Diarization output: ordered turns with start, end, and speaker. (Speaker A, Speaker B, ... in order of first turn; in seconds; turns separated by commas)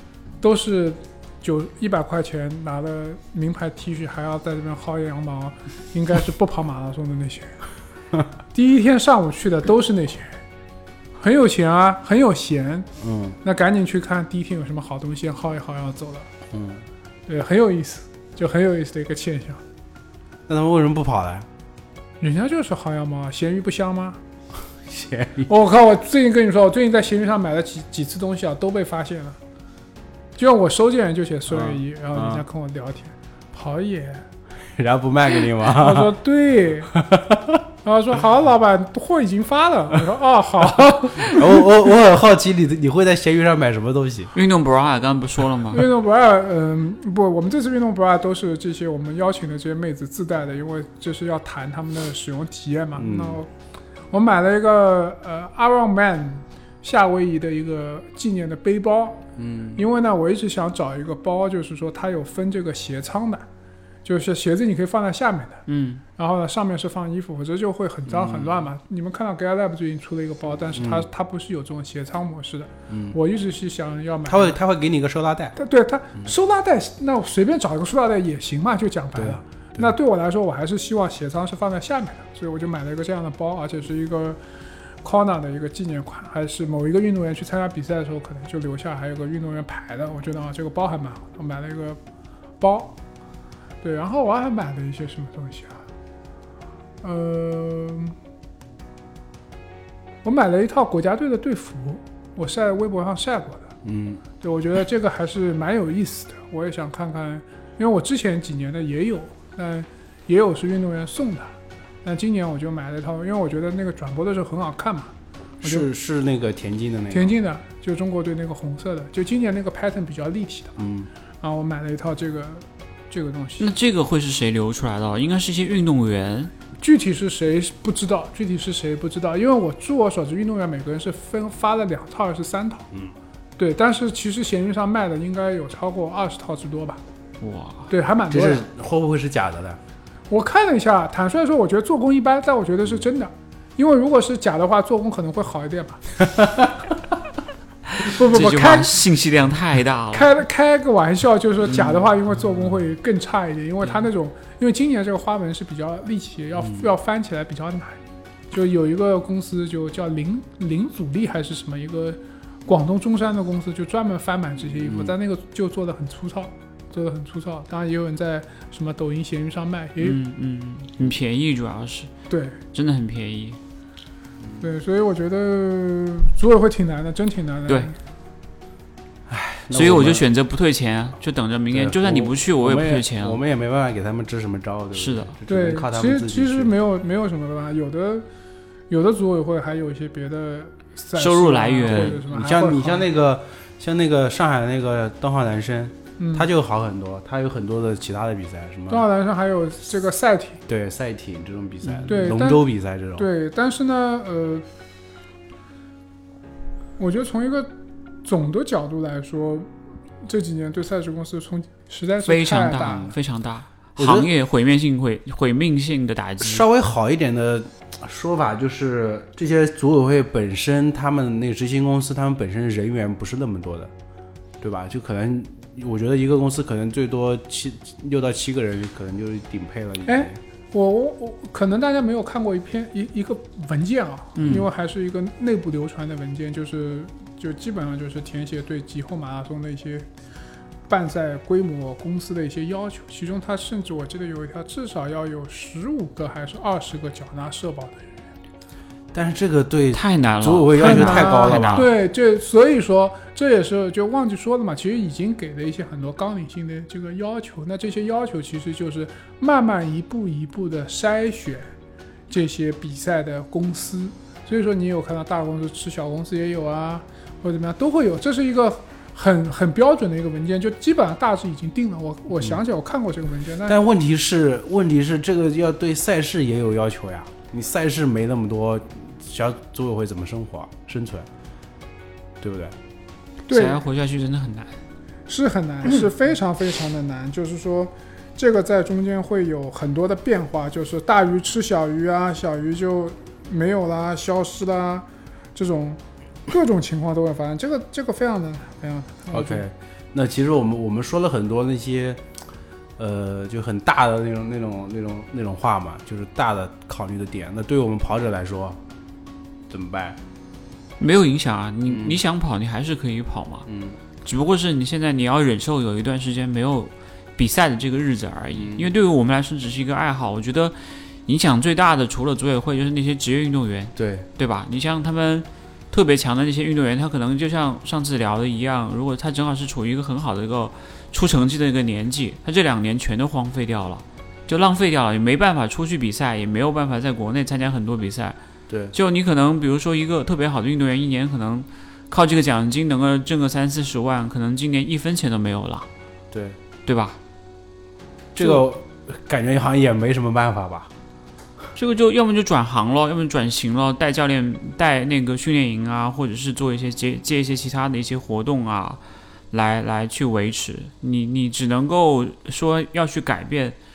Speaker A: 0.4-7.6, Speaker A: 8.5-10.4, Speaker A: 11.2-12.9, Speaker B: 13.0-13.4, Speaker A: 13.4-16.3, Speaker B: 16.5-16.8, Speaker A: 17.3-19.6, Speaker B: 20.5-21.5, Speaker A: 22.2-24.2, Speaker B: 24.9-25.5, Speaker A: 25.5-29.4, Speaker A: 30.4-34.2, Speaker B: 31.5-32.4, Speaker B: 34.8-36.1, Speaker A: 35.6-36.9, Speaker B: 36.9-37.6, Speaker A: 37.8-41.7, Speaker B: 41.2-44.3, Speaker C: 44.3-45.9, Speaker A: 45.7-53.5, Speaker B: 53.0-53.4, Speaker A: 54.1-63.5, Speaker B: 59.4-59.8, Speaker A: 64.0-65.7, Speaker C: 65.7-66.0, Speaker A: 66.2-74.6, Speaker B: 68.1-68.7, Speaker B: 70.8-71.1, Speaker B: 72.9-73.2, Speaker B: 74.3-75.6, Speaker A: 75.6-84.4, Speaker B: 79.2-79.9, Speaker A: 85.0-92.0, Speaker A: 92.6-93.0, Speaker A: 93.8-95.8, Speaker A: 97.0-98.2, Speaker A: 100.2-103.7, Speaker B: 103.8-104.2, Speaker A: 104.4-115.9, Speaker B: 115.6-117.3, Speaker A: 117.1-120.8, Speaker B: 120.8-121.1, Speaker A: 121.4-123.7, Speaker C: 123.6-126.5, Speaker A: 126.8-132.9, Speaker A: 133.6-137.0, Speaker C: 137.4-137.9, Speaker A: 137.9-138.7, Speaker B: 138.3-139.8, Speaker A: 140.3-146.0, Speaker C: 148.0-150.3, Speaker A: 148.0-149.0, Speaker A: 150.1-158.0, Speaker A: 158.5-170.2, Speaker B: 164.7-165.2, Speaker C: 170.0-172.1, Speaker A: 172.3-172.6, Speaker C: 172.7-173.6, Speaker A: 174.6-178.0, Speaker B: 179.3-180.3, Speaker C: 179.7-183.4, Speaker B: 181.7-186.7, Speaker C: 184.9-185.4, Speaker A: 185.5-188.3, Speaker A: 188.9-193.1, Speaker C: 191.2-192.2, Speaker B: 192.0-199.1, Speaker A: 196.2-196.5, Speaker A: 198.9-200.6, Speaker B: 200.7-203.2, Speaker A: 202.0-204.7, Speaker A: 207.0-207.7, Speaker A: 208.2-209.7, Speaker A: 210.2-213.2, Speaker C: 212.3-216.6, Speaker B: 214.0-214.3, Speaker B: 216.4-223.9, Speaker B: 224.6-230.4, Speaker A: 230.0-240.1, Speaker C: 234.4-234.7, Speaker B: 234.4-234.7, Speaker A: 240.9-248.2, Speaker B: 249.1-251.9, Speaker C: 249.9-251.9, Speaker A: 250.8-261.7, Speaker A: 262.3-273.8, Speaker B: 273.6-281.3, Speaker B: 282.4-282.8, Speaker A: 283.5-283.8, Speaker C: 283.5-284.8, Speaker A: 285.3-299.6, Speaker B: 299.3-302.2, Speaker B: 303.0-308.8, Speaker B: 309.7-310.2, Speaker C: 311.0-313.7, Speaker B: 311.9-312.2, Speaker B: 313.7-314.0, Speaker C: 314.2-338.4, Speaker B: 318.5-318.9, Speaker B: 324.0-324.3, Speaker B: 338.7-338.9, Speaker C: 338.9-345.9, Speaker B: 346.3-346.6, Speaker C: 346.9-347.2, Speaker B: 348.4-350.9, Speaker C: 351.8-363.8